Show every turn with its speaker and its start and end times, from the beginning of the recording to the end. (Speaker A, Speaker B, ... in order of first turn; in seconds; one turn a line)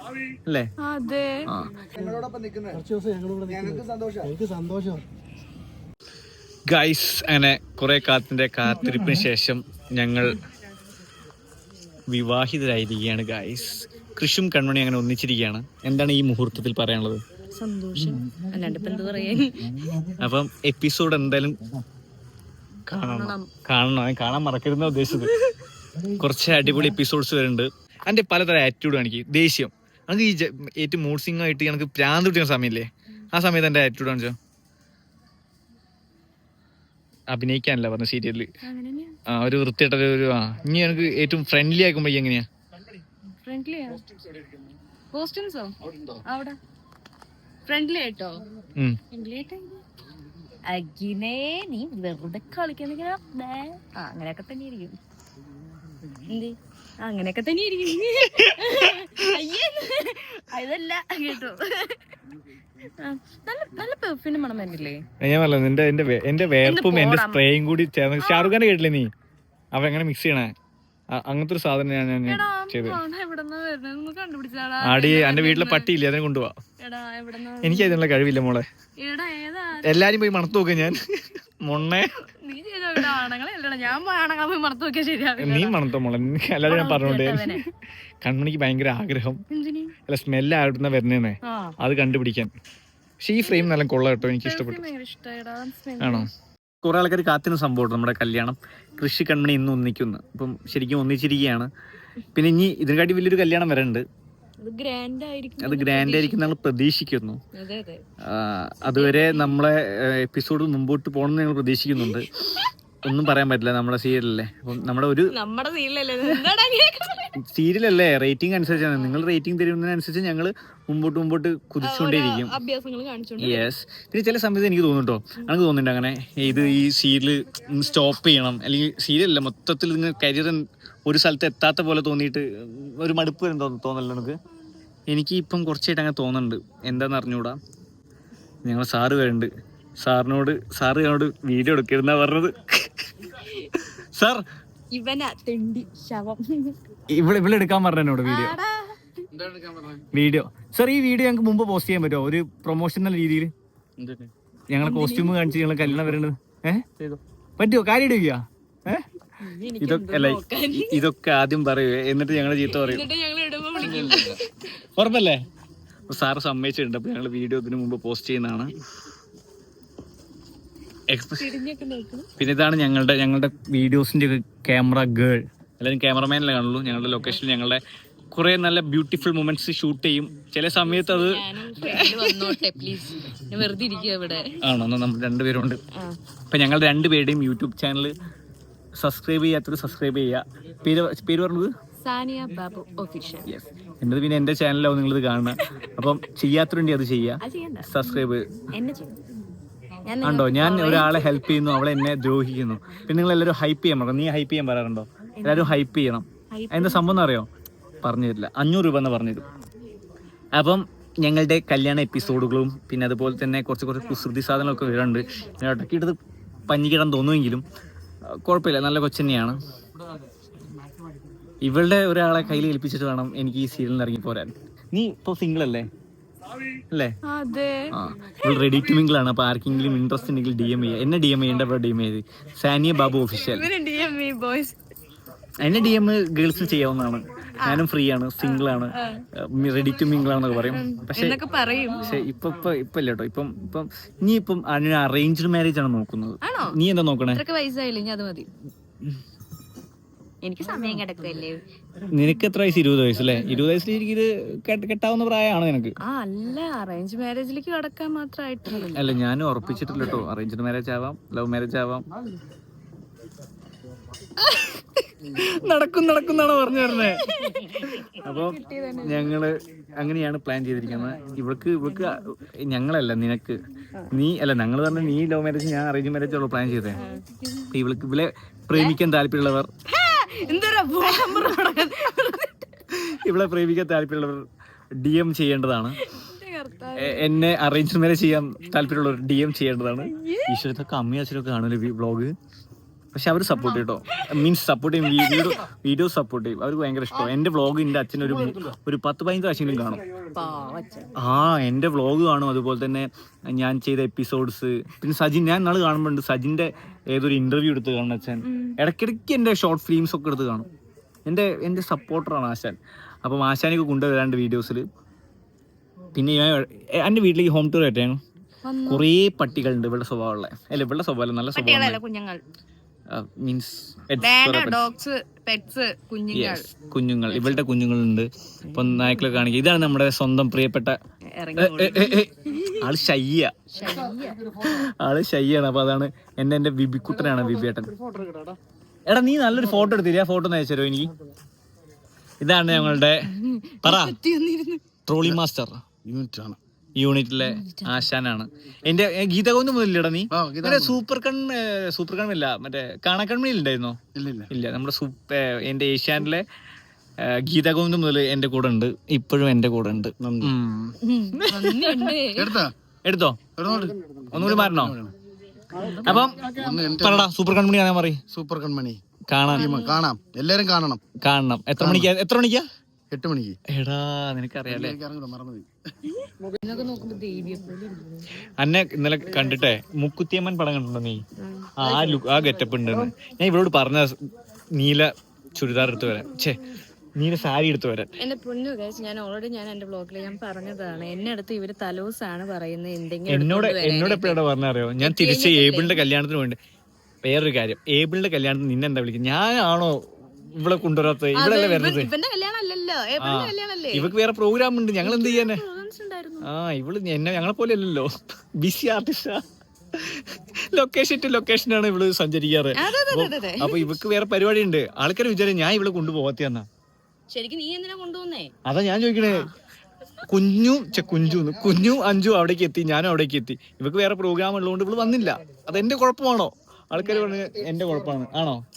Speaker A: 0.8-1.5
Speaker B: 1.5-1.7
Speaker B: 6.7-10.4
Speaker B: 12.1-17.2
Speaker A: 17.5-20.0
Speaker B: 20.2-21.6
Speaker B: 22.9-25.3
Speaker A: 23.0-23.5
Speaker A: 24.9-25.6
Speaker B: 26.1-34.4
Speaker B: 37.3-38.5
Speaker A: 38.6-39.2
Speaker B: 39.3-42.5
Speaker A: 43.4-44.1
Speaker A: 45.1-45.7
Speaker A: 46.3-46.6
Speaker A: 47.7-48.4
Speaker A: 49.1-49.8
Speaker A: 50.7-55.0
Speaker A: 56.2-62.2
Speaker B: 58.4-59.3
Speaker A: 63.0-65.0
Speaker B: 65.2-69.1
Speaker A: 66.6-67.4
Speaker A: 68.2-68.6
Speaker B: 69.7-70.5
Speaker B: 71.1-73.0
Speaker A: 72.3-75.9
Speaker B: 74.8-76.5
Speaker A: 76.8-78.0
Speaker B: 77.6-78.7
Speaker A: 79.0-80.1
Speaker B: 79.8-82.2
Speaker A: 82.2-85.8
Speaker B: 83.0-83.2
Speaker B: 85.4-87.7
Speaker A: 86.7-87.6
Speaker B: 88.2-89.4
Speaker A: 89.5-90.0
Speaker B: 90.1-92.5
Speaker A: 91.4-91.8
Speaker B: 93.2-94.8
Speaker A: 93.4-96.3
Speaker B: 96.0-96.3
Speaker B: 96.8-101.7
Speaker B: 102.3-104.0
Speaker A: 104.6-106.5
Speaker B: 105.6-107.4
Speaker A: 107.5-108.0
Speaker B: 108.2-112.3
Speaker A: 108.9-109.6
Speaker A: 112.0-112.7
Speaker B: 113.0-115.3
Speaker A: 115.3-117.3
Speaker B: 117.4-122.5
Speaker A: 118.9-119.2
Speaker A: 121.8-123.7
Speaker B: 123.4-134.4
Speaker A: 126.5-126.8
Speaker B: 135.1-137.6
Speaker B: 138.7-143.1
Speaker A: 143.4-143.7
Speaker B: 143.9-144.4
Speaker A: 144.9-146.8
Speaker B: 147.1-148.6
Speaker A: 148.2-149.3
Speaker C: 149.4-149.9
Speaker B: 150.1-153.5
Speaker C: 154.0-154.3
Speaker B: 154.7-156.9
Speaker A: 154.8-155.5
Speaker B: 157.6-159.1
Speaker A: 159.4-161.0
Speaker B: 159.8-163.1
Speaker A: 162.6-164.5
Speaker B: 163.8-164.4
Speaker C: 164.0-164.3
Speaker B: 165.0-165.4
Speaker B: 166.1-168.7
Speaker B: 171.1-171.6
Speaker A: 171.4-172.3
Speaker B: 172.4-177.8
Speaker B: 178.3-182.6
Speaker A: 180.8-184.6
Speaker B: 184.6-185.8
Speaker A: 185.9-186.2
Speaker B: 186.5-188.1
Speaker B: 189.0-191.7
Speaker A: 192.0-193.5
Speaker B: 193.4-198.4
Speaker A: 195.6-196.2
Speaker A: 197.4-198.0
Speaker A: 198.7-199.2
Speaker A: 200.1-202.0
Speaker B: 200.2-207.5
Speaker A: 205.4-205.8
Speaker A: 206.5-207.1
Speaker B: 208.0-209.5
Speaker B: 210.6-216.2
Speaker B: 216.7-217.6
Speaker B: 218.4-219.6
Speaker B: 221.6-225.9
Speaker A: 227.2-228.8
Speaker B: 227.9-233.7
Speaker A: 233.2-234.8
Speaker B: 235.6-241.4
Speaker A: 237.6-237.9
Speaker A: 238.4-239.2
Speaker A: 240.5-242.2
Speaker B: 242.0-247.4
Speaker A: 246.4-246.8
Speaker A: 247.3-248.5
Speaker A: 250.4-251.6
Speaker B: 252.1-255.9
Speaker A: 256.0-259.2
Speaker B: 258.9-262.0
Speaker A: 264.4-264.8
Speaker B: 265.3-273.6
Speaker A: 266.9-269.4
Speaker A: 271.8-272.3
Speaker B: 274.1-277.0
Speaker A: 276.9-277.7
Speaker B: 277.7-279.7
Speaker A: 279.9-282.7
Speaker B: 282.9-284.4
Speaker B: 285.0-286.0
Speaker A: 286.0-287.4
Speaker B: 287.0-292.3
Speaker A: 290.1-290.6
Speaker B: 293.1-300.0
Speaker A: 293.5-294.5
Speaker A: 295.0-295.6
Speaker A: 300.3-301.1
Speaker B: 301.2-310.7
Speaker A: 308.4-308.8
Speaker B: 311.3-314.8
Speaker B: 316.1-318.2
Speaker A: 318.6-319.1
Speaker B: 318.9-322.0
Speaker A: 321.6-322.4
Speaker B: 323.1-324.8
Speaker A: 324.2-326.7
Speaker B: 326.3-331.0
Speaker A: 327.3-327.6
Speaker A: 328.7-329.1
Speaker A: 331.3-332.9
Speaker B: 331.6-333.7
Speaker A: 333.7-334.6
Speaker B: 334.6-337.9
Speaker B: 339.1-341.1
Speaker B: 342.4-343.3
Speaker A: 342.7-344.8
Speaker B: 343.8-344.2
Speaker B: 345.1-345.8
Speaker C: 346.1-346.6
Speaker B: 347.0-356.4
Speaker A: 347.4-348.1
Speaker C: 350.3-351.0
Speaker C: 354.1-354.5
Speaker B: 357.2-362.1
Speaker C: 360.2-360.5
Speaker A: 361.0-362.6
Speaker C: 362.4-362.7
Speaker B: 363.1-363.4
Speaker C: 363.6-365.1
Speaker B: 364.3-365.0
Speaker A: 365.7-366.2
Speaker B: 366.0-368.2
Speaker C: 366.4-367.3
Speaker C: 368.3-369.0
Speaker B: 369.3-369.8
Speaker A: 369.5-370.0
Speaker C: 369.5-371.0
Speaker B: 371.2-372.6
Speaker C: 371.8-372.1
Speaker C: 373.1-373.6
Speaker B: 373.7-375.0
Speaker C: 374.7-375.7
Speaker A: 376.1-378.2
Speaker B: 378.6-381.2
Speaker A: 381.4-383.0
Speaker B: 381.8-384.1
Speaker B: 384.8-386.6
Speaker B: 387.2-388.1
Speaker A: 388.2-394.4
Speaker B: 393.3-396.6
Speaker A: 395.0-396.0
Speaker B: 397.2-400.0
Speaker B: 400.6-402.1
Speaker A: 401.4-404.1
Speaker B: 403.2-405.6
Speaker A: 405.0-406.5
Speaker B: 406.4-409.4
Speaker B: 409.9-416.7
Speaker A: 412.7-413.9
Speaker A: 417.3-418.5
Speaker B: 418.6-419.5
Speaker A: 419.2-419.5
Speaker B: 420.3-428.6
Speaker A: 426.9-427.3